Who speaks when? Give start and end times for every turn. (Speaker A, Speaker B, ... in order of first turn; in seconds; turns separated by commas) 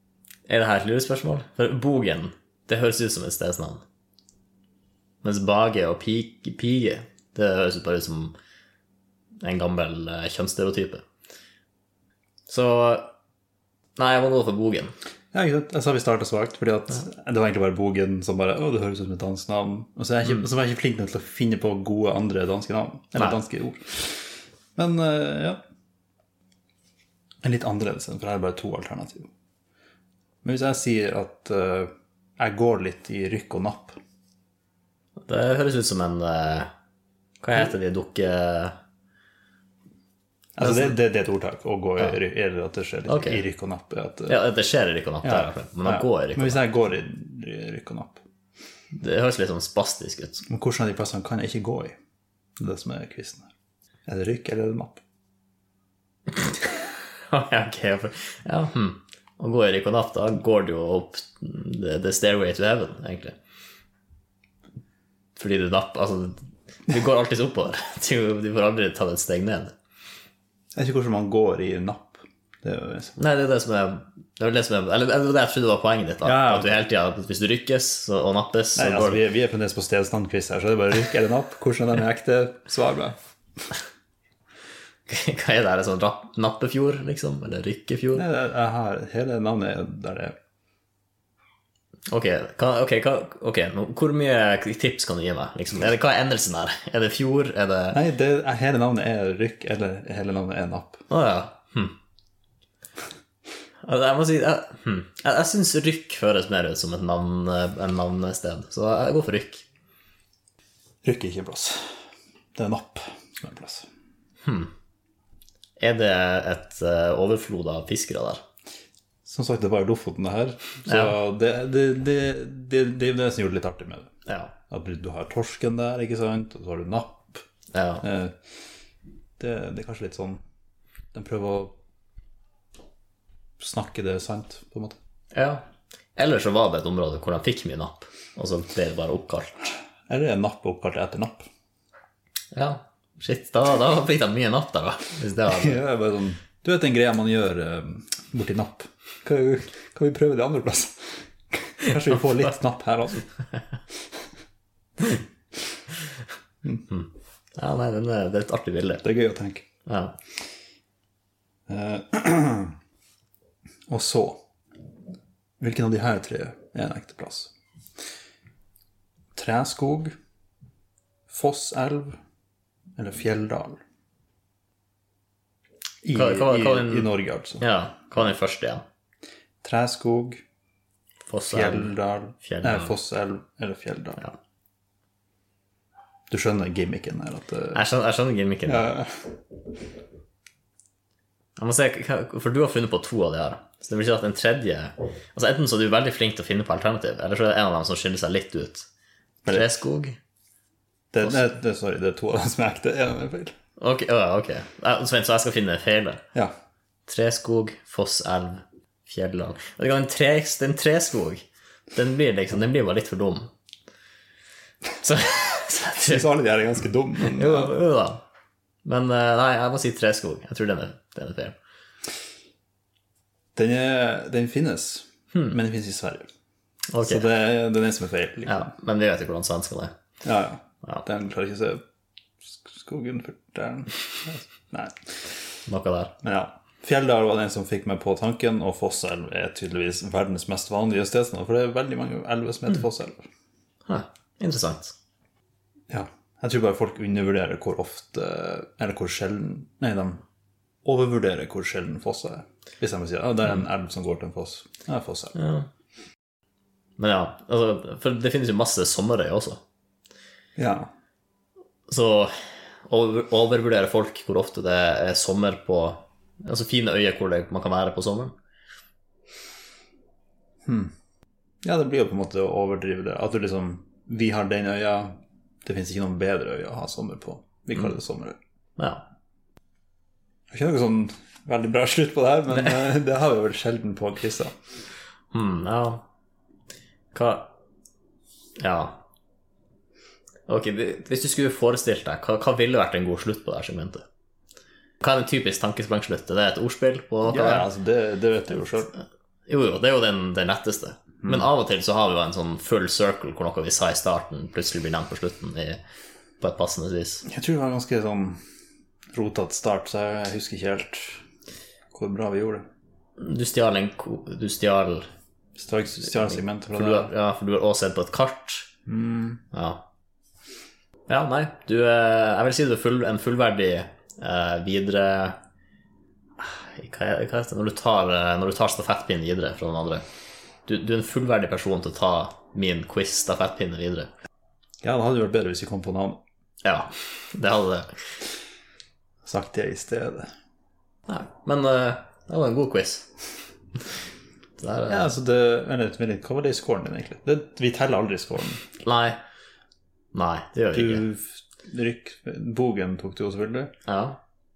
Speaker A: 0.5-3.8, Speaker A: 5.2-8.3, Speaker A: 9.4-11.0, Speaker A: 12.5-13.1, Speaker A: 14.0-14.9, Speaker B: 15.3-25.6, Speaker B: 27.4-29.3, Speaker B: 30.4-34.0, Speaker A: 35.2-36.7, Speaker A: 37.4-38.8, Speaker B: 40.6-44.4, Speaker A: 40.6-41.0, Speaker A: 43.1-43.4, Speaker A: 44.3-46.7, Speaker B: 45.2-48.2, Speaker A: 48.9-50.5, Speaker B: 50.5-52.0, Speaker B: 52.6-53.5, Speaker B: 54.1-55.0, Speaker A: 57.3-63.4, Speaker A: 65.4-69.7, Speaker B: 70.8-73.2, Speaker A: 73.2-79.2, Speaker B: 76.2-76.8, Speaker B: 78.8-83.2, Speaker A: 85.1-88.2, Speaker B: 88.2-90.3, Speaker A: 92.1-98.0, Speaker B: 97.9-101.1, Speaker A: 101.1-102.0, Speaker A: 103.8-109.7, Speaker B: 111.0-112.0, Speaker B: 112.6-113.9, Speaker A: 114.4-114.7, Speaker A: 115.8-118.4, Speaker B: 119.2-124.1, Speaker A: 120.9-121.2, Speaker A: 124.3-124.5, Speaker B: 124.7-127.4, Speaker A: 127.7-128.1, Speaker B: 128.0-128.4, Speaker B: 129.4-130.4, Speaker B: 131.1-131.7, Speaker B: 133.6-135.0, Speaker A: 135.3-135.6, Speaker A: 136.2-139.6, Speaker B: 140.1-141.5, Speaker A: 142.5-145.8, Speaker B: 145.5-153.3, Speaker A: 156.9-159.0, Speaker B: 159.0-159.7, Speaker A: 159.9-160.1, Speaker B: 161.7-162.8, Speaker B: 163.9-164.4, Speaker B: 165.6-167.5, Speaker B: 169.3-170.1, Speaker B: 171.3-172.2, Speaker B: 173.0-173.8, Speaker B: 176.0-177.6, Speaker A: 176.1-178.8, Speaker B: 179.6-180.4, Speaker A: 181.3-182.9, Speaker B: 181.5-184.2, Speaker B: 186.3-187.8, Speaker A: 187.7-188.9, Speaker B: 188.7-189.4, Speaker A: 191.6-198.9, Speaker B: 199.4-199.7, Speaker A: 199.5-200.2, Speaker B: 201.1-203.5, Speaker A: 203.8-206.2, Speaker A: 207.1-213.5, Speaker A: 215.0-216.3, Speaker B: 216.0-217.8, Speaker A: 217.2-218.2, Speaker A: 218.8-221.6, Speaker B: 223.6-226.3, Speaker A: 225.3-225.6, Speaker A: 226.9-227.3, Speaker B: 227.0-228.7, Speaker A: 228.5-229.9, Speaker B: 230.2-231.8, Speaker B: 232.4-235.3, Speaker A: 235.7-236.2, Speaker B: 236.2-243.2, Speaker A: 243.9-244.9, Speaker B: 245.9-250.2, Speaker B: 250.8-255.3, Speaker A: 255.3-255.7, Speaker A: 257.0-259.6, Speaker B: 260.6-260.9, Speaker A: 261.9-268.3, Speaker B: 270.6-270.9, Speaker B: 271.6-278.4, Speaker A: 278.8-279.0, Speaker B: 280.5-284.5, Speaker A: 285.3-286.0, Speaker A: 287.1-287.5, Speaker A: 288.6-289.0, Speaker A: 290.5-294.0, Speaker A: 295.0-297.7, Speaker B: 297.3-299.0, Speaker A: 299.5-305.8, Speaker A: 306.4-307.2, Speaker B: 307.3-308.4, Speaker B: 309.1-311.2, Speaker B: 311.9-312.7, Speaker A: 313.2-315.1, Speaker B: 315.6-317.1, Speaker A: 316.4-318.7, Speaker B: 318.9-319.4, Speaker A: 319.5-319.8, Speaker A: 321.1-325.4, Speaker A: 326.4-330.0, Speaker A: 330.7-334.1, Speaker B: 334.8-336.2, Speaker A: 336.6-338.0, Speaker B: 339.2-340.3, Speaker A: 341.1-343.1, Speaker A: 344.6-345.1, Speaker B: 344.9-348.6, Speaker A: 348.8-349.2, Speaker A: 350.1-351.0, Speaker B: 350.7-353.7, Speaker A: 353.9-354.2